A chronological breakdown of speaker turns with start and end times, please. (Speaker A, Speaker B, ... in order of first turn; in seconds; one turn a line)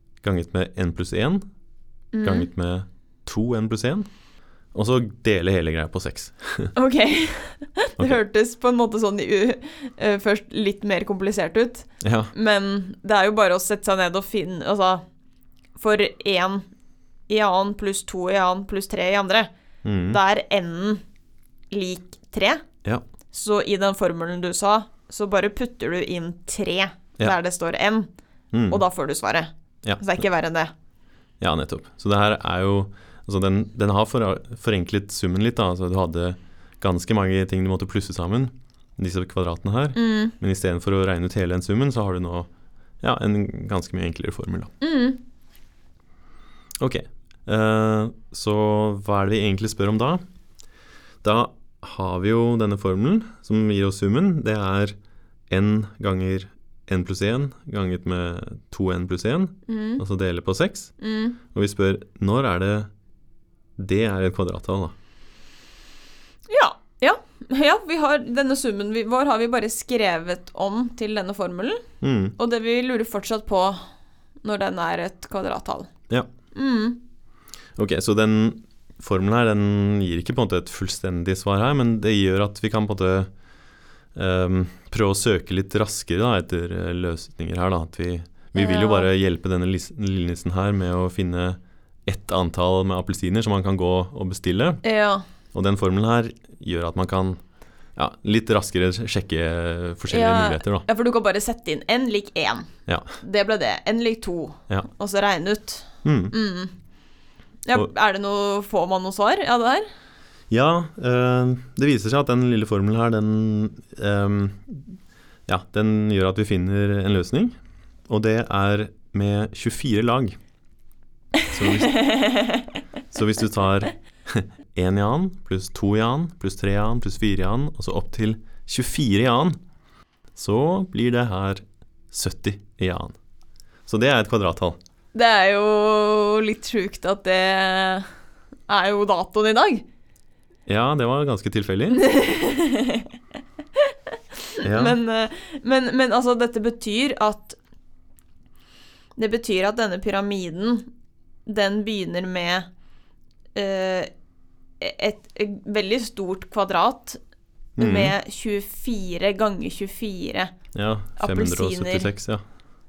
Speaker A: 0.2-1.4
Speaker B: 2.1-2.5
Speaker A: 2.2-4.1
Speaker A: 4.7-6.7
Speaker B: 6.8-15.0
Speaker A: 12.0-12.3
Speaker B: 15.8-16.6
Speaker B: 17.3-19.5
Speaker A: 19.8-20.2
Speaker B: 20.1-21.0
Speaker B: 21.7-22.6
Speaker B: 23.3-28.1
Speaker A: 28.5-28.8
Speaker B: 28.7-30.7
Speaker A: 31.4-42.5
Speaker B: 39.9-40.3
Speaker A: 43.0-44.7
Speaker B: 44.8-45.2
Speaker A: 46.8-50.2
Speaker A: 51.2-55.0
Speaker A: 55.5-60.9
Speaker B: 59.7-60.0
Speaker B: 61.0-61.4
Speaker A: 61.5-62.9
Speaker A: 63.8-64.9
Speaker B: 66.5-71.8
Speaker A: 72.0-72.3
Speaker B: 72.4-73.8
Speaker B: 74.4-75.9
Speaker B: 76.5-77.0
Speaker A: 77.8-83.3
Speaker A: 84.1-94.8
Speaker B: 88.5-89.1
Speaker B: 94.8-95.2
Speaker A: 95.5-97.4
Speaker A: 98.0-100.8
Speaker B: 100.1-102.7
Speaker A: 102.9-103.1
Speaker B: 103.2-106.7
Speaker A: 106.0-106.3
Speaker B: 107.7-109.9
Speaker A: 110.5-117.5
Speaker A: 118.1-120.4
Speaker A: 121.5-122.1
Speaker B: 121.9-122.7
Speaker A: 123.1-129.6
Speaker A: 130.3-133.1
Speaker A: 133.9-134.8
Speaker B: 135.1-138.1
Speaker B: 138.7-139.8
Speaker A: 140.7-142.0
Speaker B: 141.9-143.1
Speaker B: 144.4-147.6
Speaker A: 144.6-145.0
Speaker B: 149.2-150.9
Speaker B: 151.4-152.7
Speaker B: 153.5-154.1
Speaker B: 154.8-157.2
Speaker A: 157.8-158.1
Speaker B: 157.8-160.5
Speaker A: 160.7-162.4
Speaker B: 161.2-162.1